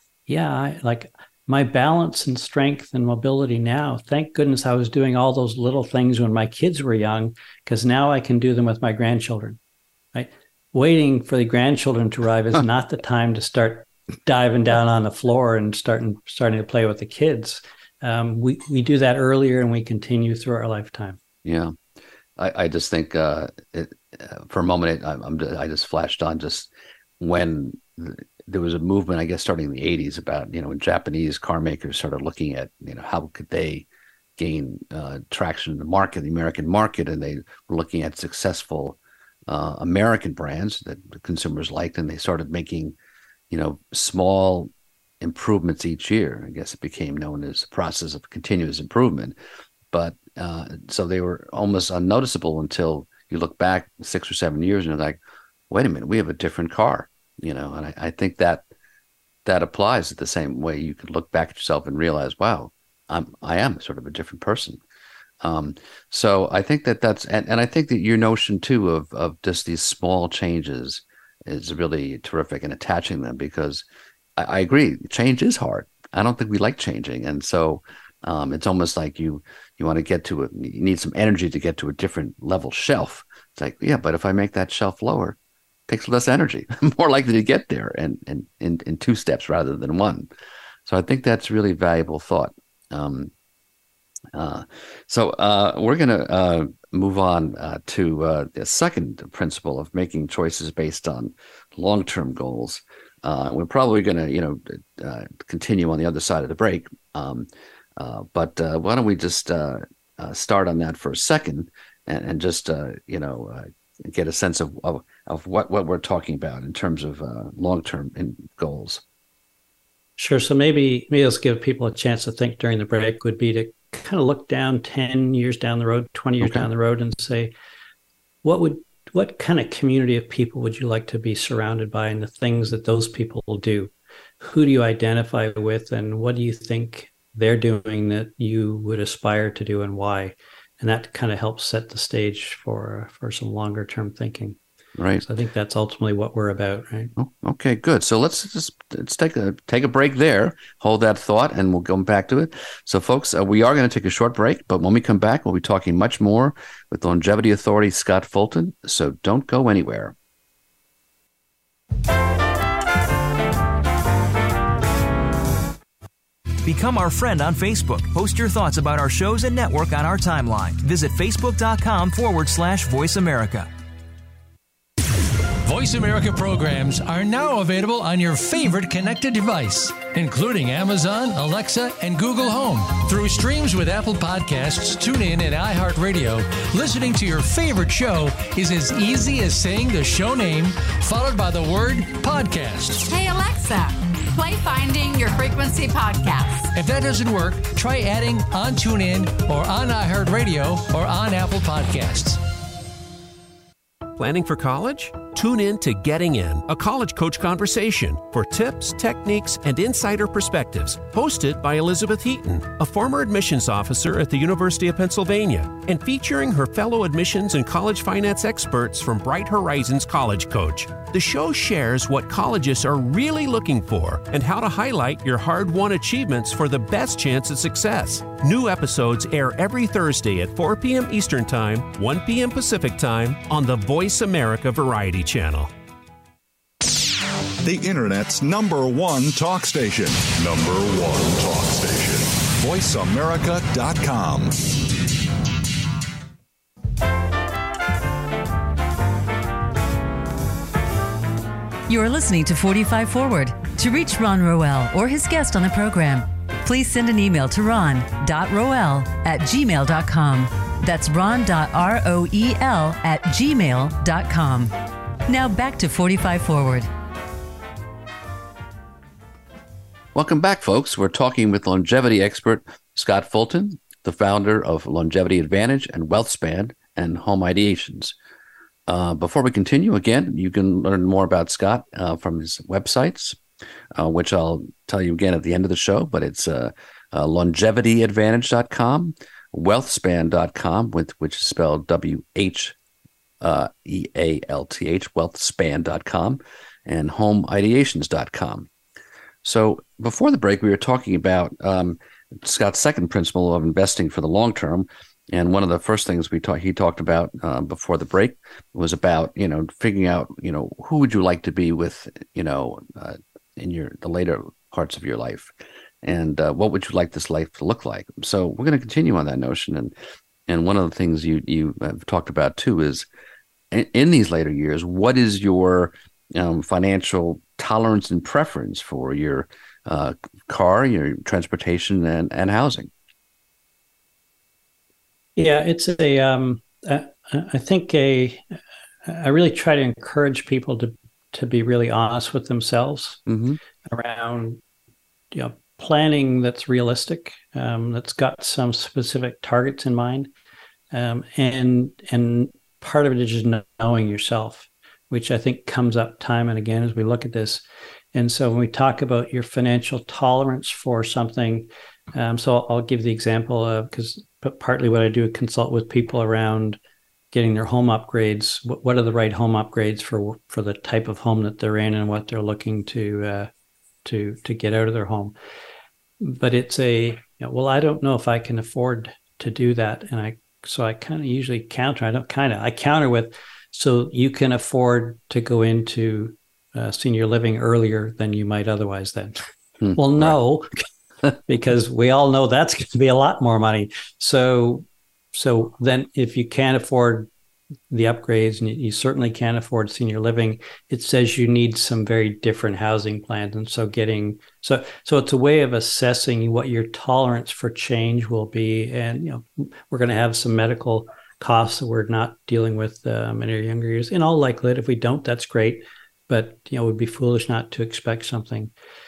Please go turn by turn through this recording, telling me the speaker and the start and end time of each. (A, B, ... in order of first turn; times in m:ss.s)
0:00.3-0:09.6 A
0:10.1-0:21.2 A
0:21.4-0:21.8 B
0:22.4-0:33.9 B
0:34.4-0:39.0 B
0:39.5-0:43.0 B
0:43.5-0:49.4 B
0:49.9-0:55.2 B
0:55.7-0:58.6 B
0:59.4-1:04.8 B
1:05.4-1:13.8 B
1:14.4-1:25.4 B
1:25.9-1:30.3 B
1:30.9-1:33.3 B
1:34.3-1:59.0 B
2:00.2-2:07.5 A
2:08.4-2:24.6 A
2:25.0-2:25.2 B
2:25.2-2:27.1 A
2:27.2-2:40.2 B
2:46.6-2:53.7 C
2:55.6-3:13.0 D
3:13.0-3:16.7 E
3:16.7-3:22.4 D
3:24.2-3:55.7 F
3:57.6-4:04.8 G
4:11.9-4:24.7 H
4:25.3-4:26.9 H
4:30.1-4:38.2 B
4:38.9-4:43.4 B
4:43.9-4:52.8 B
4:53.4-4:58.7 B
4:59.4-5:20.0 B
5:20.5-5:23.1 B
5:23.7-5:32.9 B
5:35.4-5:38.4 A
5:39.0-5:43.2 A
5:43.3-5:43.6 B
5:43.9-5:44.6 A
5:45.3-5:50.3 A
5:50.9-6:06.8 A
6:07.3-6:13.5 A
6:14.0-6:15.3 A
6:16.2-6:29.4 A
6:29.8-6:30.4 B
6:29.9-6:30.8 A
6:31.5-6:37.3 A
6:37.9-6:58.7 A